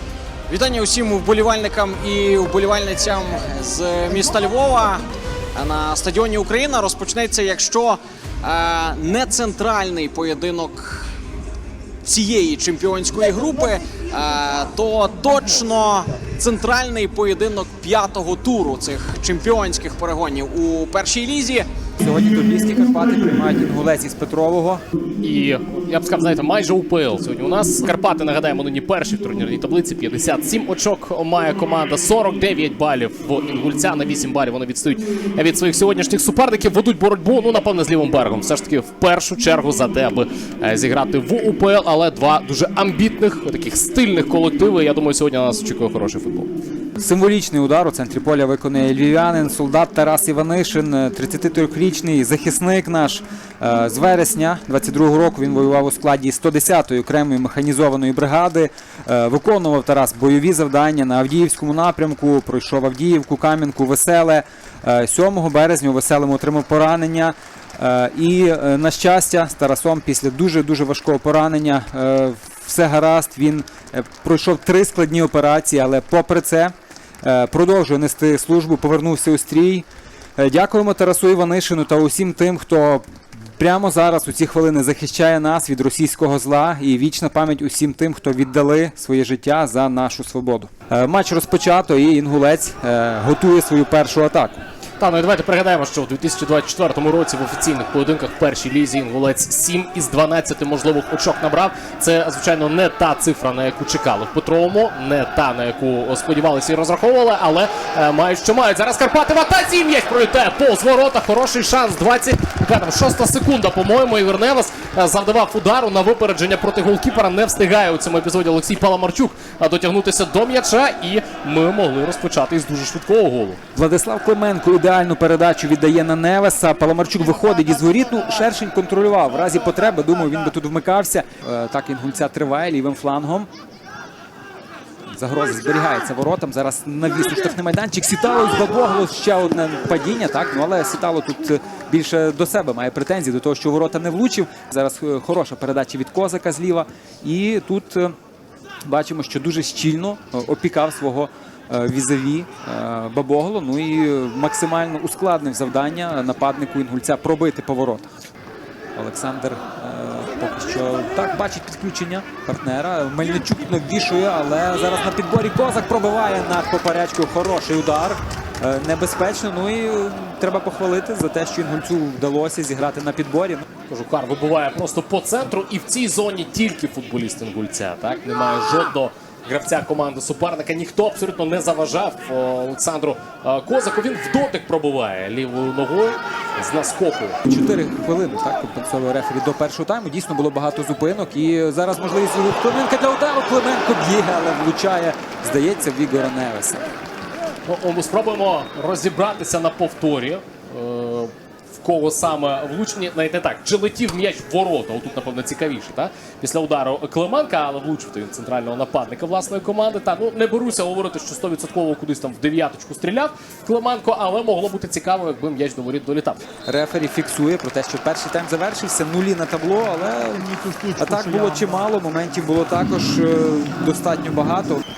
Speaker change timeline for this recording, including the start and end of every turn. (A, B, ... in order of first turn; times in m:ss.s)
0:00.5-0:05.0 A
0:05.6-0:11.1 A
0:12.0-0:21.7 A
0:22.0-0:24.8 B
0:25.2-0:46.5 C
0:47.0-1:34.6 B
1:35.0-2:03.6 C
2:03.7-2:13.5 B
2:15.1-2:28.1 B
2:28.8-2:38.1 B
2:39.0-2:53.6 B
2:53.9-3:07.4 C
3:07.5-3:16.9 B
3:17.7-3:36.4 C
3:36.7-3:44.8 B